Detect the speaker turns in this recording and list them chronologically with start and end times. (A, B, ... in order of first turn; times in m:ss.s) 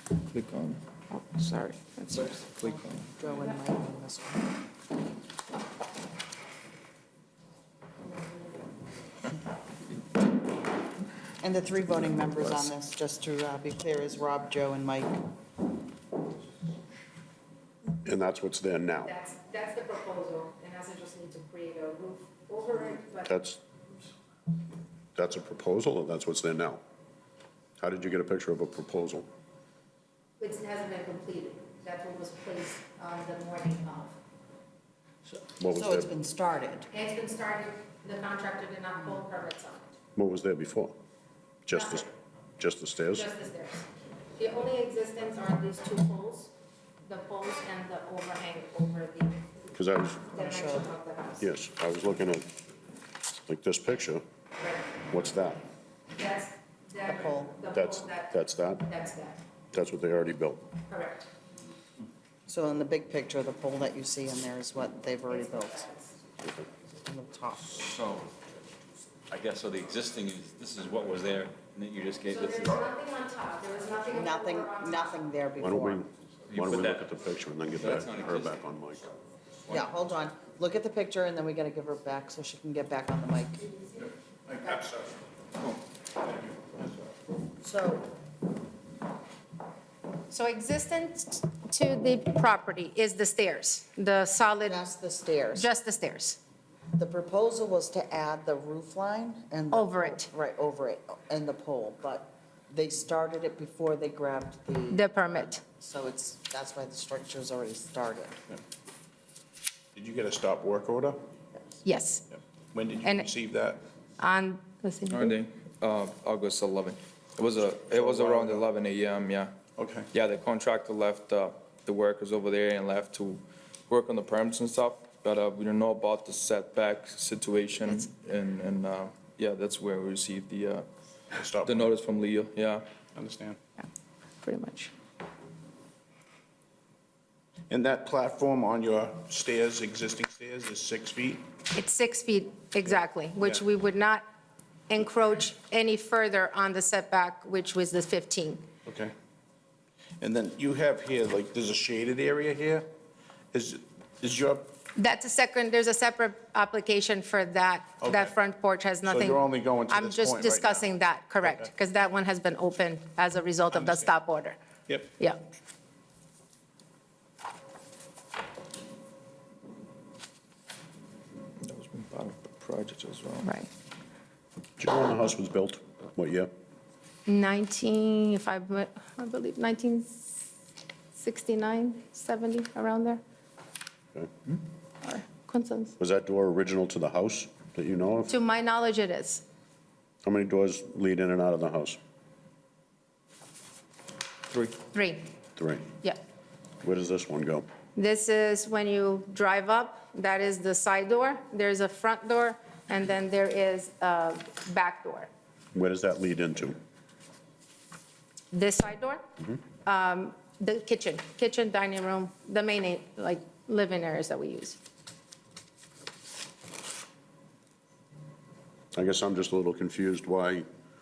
0:00.3-0:00.8 A
0:01.1-0:02.4 B
0:02.5-0:03.0 A
0:02.6-0:04.6 C
0:11.4-0:15.2 C
0:18.0-0:19.1 D
0:19.1-0:23.3 B
0:23.3-0:23.6 D
0:25.2-0:26.8 D
0:27.8-0:29.3 D
0:30.4-0:34.2 B
0:35.6-0:36.1 D
0:35.7-0:36.9 C
0:36.9-0:39.9 B
0:40.2-0:40.9 D
0:41.7-0:42.1 D
0:41.7-0:42.0 B
0:42.6-0:43.3 D
0:43.1-0:46.5 B
0:47.1-0:49.4 B
0:49.8-0:50.3 D
0:50.3-0:51.5 B
0:50.4-0:50.9 C
0:51.4-0:52.4 D
0:53.5-0:54.2 D
0:55.1-0:55.6 D
0:56.2-0:59.4 B
0:57.0-0:57.6 C
0:57.7-0:58.9 D
0:59.7-1:00.7 D
1:00.9-1:01.3 B
1:02.5-1:05.9 C
1:05.3-1:06.1 B
1:06.9-1:07.8 C
1:07.8-1:08.3 E
1:09.3-1:12.9 E
1:12.3-1:15.2 B
1:14.1-1:16.0 C
1:15.6-1:19.1 D
1:16.5-1:17.1 E
1:17.8-1:18.5 E
1:19.7-1:23.8 C
1:24.5-1:25.2 F
1:26.2-1:26.9 F
1:27.6-1:28.1 C
1:30.3-1:34.8 B
1:34.6-1:35.7 C
1:35.6-1:36.4 B
1:36.9-1:45.1 C
1:39.7-1:40.3 B
1:44.9-1:45.6 B
1:45.6-1:48.4 C
1:50.0-1:51.2 F
1:51.8-1:52.2 B
1:52.7-1:53.8 F
1:54.2-1:55.4 B
1:55.1-1:59.5 A
1:57.9-1:58.7 F
1:59.8-2:00.1 F
2:00.1-2:10.9 A
2:11.3-2:12.0 F
2:11.6-2:12.8 A
2:13.2-2:13.6 F
2:14.4-2:14.9 B
2:17.7-2:21.5 F
2:21.7-2:24.2 B
2:24.9-2:28.6 B
2:28.9-2:29.1 F
2:30.2-2:32.9 F
2:33.5-2:34.7 F
2:35.0-2:44.6 B
2:38.0-2:38.3 F
2:39.0-2:40.9 F
2:41.4-2:41.7 F
2:43.7-2:44.1 F
2:45.2-2:45.4 B
2:51.6-2:53.5 A
2:54.8-2:56.5 D
2:57.3-3:00.5 B
3:01.2-3:03.2 B
3:05.0-3:06.0 B
3:06.0-3:08.4 D
3:08.3-3:09.4 B
3:10.2-3:12.0 D
3:14.9-3:15.3 B
3:15.6-3:15.9 D
3:16.8-3:17.7 D
3:18.0-3:25.3 B
3:25.8-3:26.8 D
3:28.5-3:29.2 B
3:29.8-3:34.8 B
3:38.9-3:40.6 D